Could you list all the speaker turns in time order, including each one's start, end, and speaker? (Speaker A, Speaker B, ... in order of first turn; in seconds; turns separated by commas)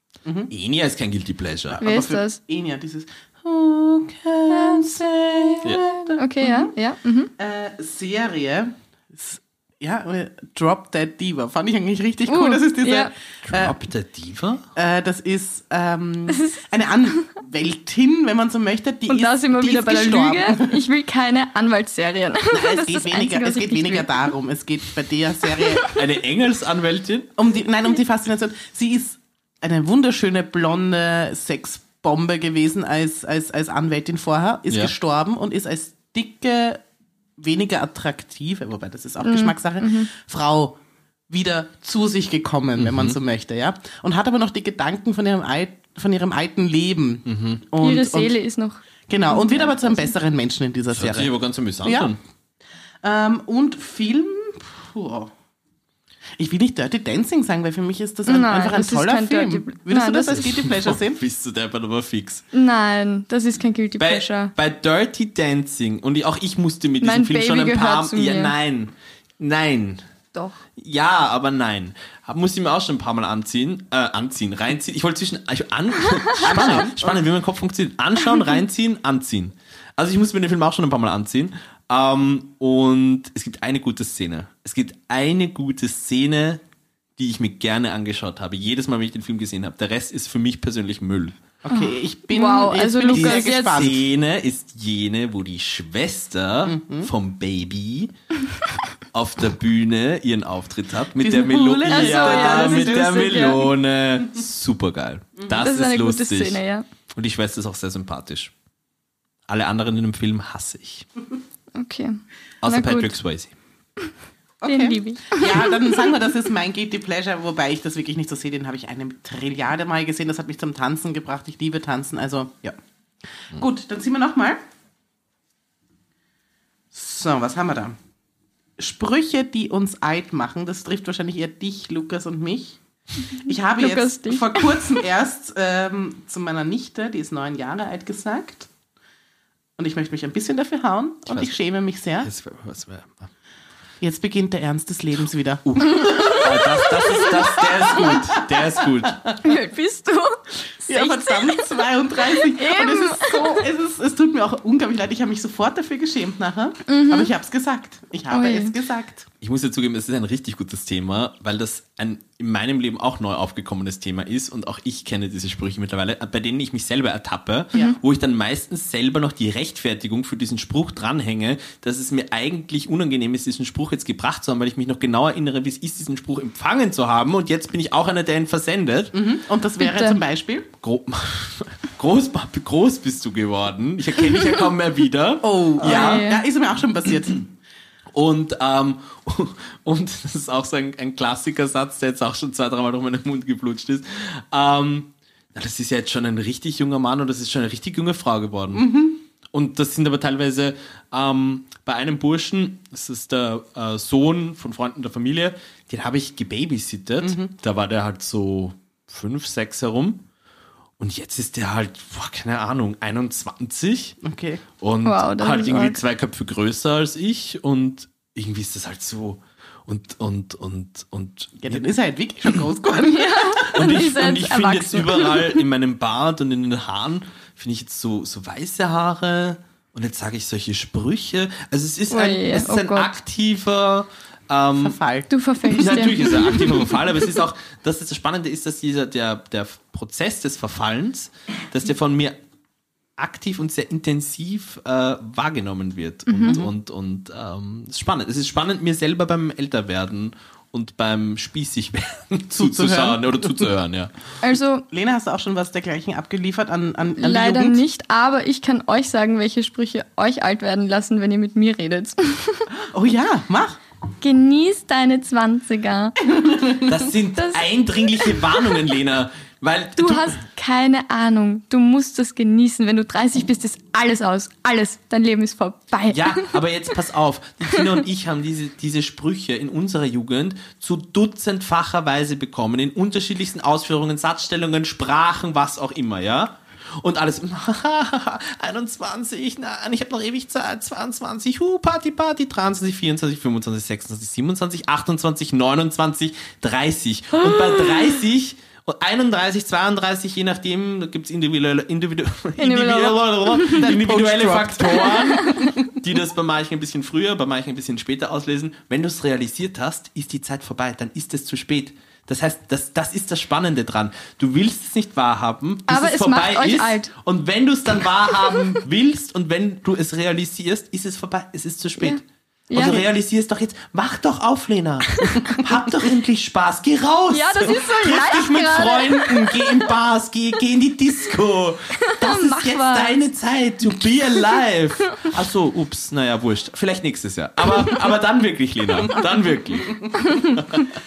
Speaker A: 0.2-0.5, Speaker B: 0.5-1.8, Speaker A: 1.8-6.7, Speaker C: 1.8-2.4, Speaker C: 6.0-7.3, Speaker A: 7.4-13.8, Speaker C: 12.3-13.1, Speaker B: 13.4-14.7, Speaker A: 14.7-20.8, Speaker C: 16.3-16.6, Speaker C: 19.1-24.3, Speaker A: 22.5-25.9, Speaker B: 25.9-27.3, Speaker A: 27.4-36.8, Speaker A: 37.4-40.8, Speaker C: 39.2-40.1, Speaker A: 41.3-48.3, Speaker B: 42.8-43.2, Speaker B: 47.2-47.6, Speaker C: 47.8-50.1, Speaker A: 49.1-52.1, Speaker B: 50.9-52.2, Speaker A: 53.0-55.3, Speaker A: 56.4-61.2, Speaker C: 58.2-60.5, Speaker B: 60.4-62.5, Speaker C: 62.5-64.5, Speaker B: 64.0-70.0, Speaker C: 67.0-68.5, Speaker B: 70.8-86.6, Speaker A: 76.4-77.2, Speaker B: 87.2-91.4, Speaker A: 91.6-94.0, Speaker C: 91.7-93.8, Speaker B: 93.1-98.1, Speaker A: 96.6-97.1, Speaker B: 99.1-106.6, Speaker A: 101.2-103.6, Speaker C: 101.9-103.7, Speaker C: 105.5-106.8, Speaker B: 107.1-108.5, Speaker B: 109.5-111.0, Speaker C: 111.7-113.1, Speaker B: 112.6-113.5, Speaker A: 114.6-122.8, Speaker C: 114.7-116.0, Speaker A: 123.5-124.6, Speaker A: 126.9-128.0, Speaker A: 128.8-132.8, Speaker A: 133.3-138.7, Speaker C: 133.8-135.0, Speaker A: 139.8-142.3, Speaker B: 141.3-141.5, Speaker B: 142.2-143.3, Speaker A: 144.0-148.4, Speaker B: 145.7-149.2, Speaker C: 146.1-146.3, Speaker C: 149.4-151.7, Speaker A: 150.9-159.3, Speaker C: 152.3-153.7, Speaker C: 156.9-157.3, Speaker C: 158.3-158.7, Speaker B: 159.4-179.2, Speaker A: 179.1-180.7, Speaker C: 179.8-180.2, Speaker B: 180.8-186.3, Speaker A: 185.4-187.5, Speaker C: 185.8-186.4, Speaker B: 188.1-198.9, Speaker A: 198.7-199.2, Speaker B: 199.4-210.2, Speaker A: 207.2-207.5, Speaker B: 211.0-214.2, Speaker A: 214.2-214.6, Speaker B: 214.8-221.8, Speaker C: 215.0-216.0, Speaker A: 221.6-223.7, Speaker C: 223.0-225.6, Speaker B: 223.7-235.0, Speaker C: 232.1-233.1, Speaker A: 234.8-235.3, Speaker C: 235.3-236.9, Speaker B: 235.6-242.4, Speaker B: 243.2-254.1, Speaker C: 246.3-246.6, Speaker A: 252.5-253.7, Speaker C: 254.4-254.8, Speaker A: 254.9-257.8, Speaker C: 257.2-262.7, Speaker A: 262.9-263.8, Speaker C: 264.2-266.2, Speaker A: 266.2-266.9, Speaker B: 266.8-270.4, Speaker C: 267.4-267.7, Speaker C: 270.0-276.6, Speaker B: 276.1-340.8, Speaker C: 302.6-303.9, Speaker A: 303.8-305.8, Speaker C: 305.4-305.6, Speaker C: 315.9-317.1, Speaker C: 322.0-323.0, Speaker C: 327.3-329.8, Speaker C: 332.0-333.2